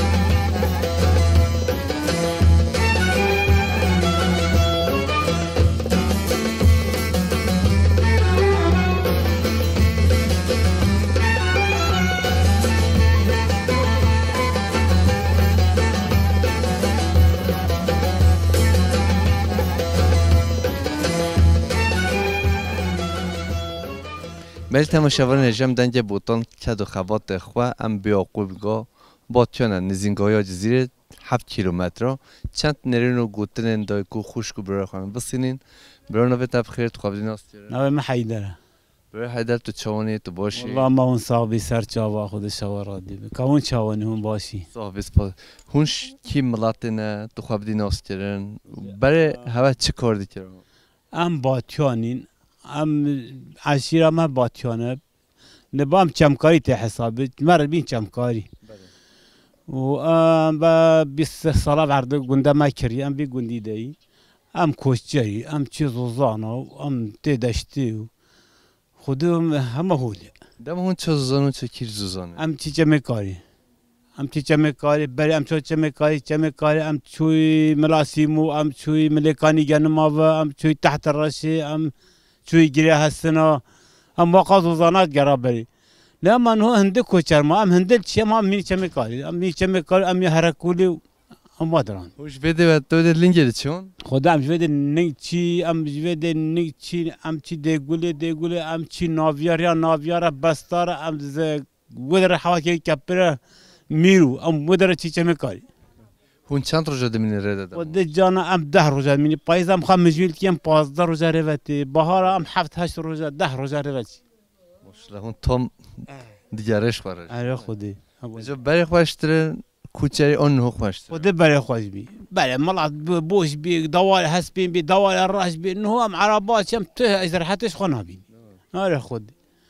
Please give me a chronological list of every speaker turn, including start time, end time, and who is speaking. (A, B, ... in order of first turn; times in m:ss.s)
0:24.7-0:37.8 A
0:37.7-0:38.6 B
0:39.1-0:40.9 A
0:40.6-0:44.7 B
0:44.7-0:50.6 A
0:48.9-0:49.5 B
0:51.1-0:55.0 B
0:55.7-0:58.5 B
0:59.7-1:04.0 B
1:04.5-1:08.1 B
1:09.0-1:10.3 B
1:10.6-1:12.4 A
1:12.4-1:13.4 B
1:14.2-1:21.9 B
1:22.5-1:23.6 B
1:24.2-1:25.7 B
1:26.2-1:31.0 B
1:31.6-1:32.1 B
1:32.2-1:33.9 A
1:34.0-1:43.4 B
1:43.9-1:45.6 B
1:46.5-1:48.0 A
1:47.7-1:54.2 B
1:54.8-1:56.0 A
1:56.5-1:57.7 A
1:57.3-1:58.5 B
1:58.4-2:01.3 A
2:01.1-2:08.2 B
2:08.7-2:09.3 B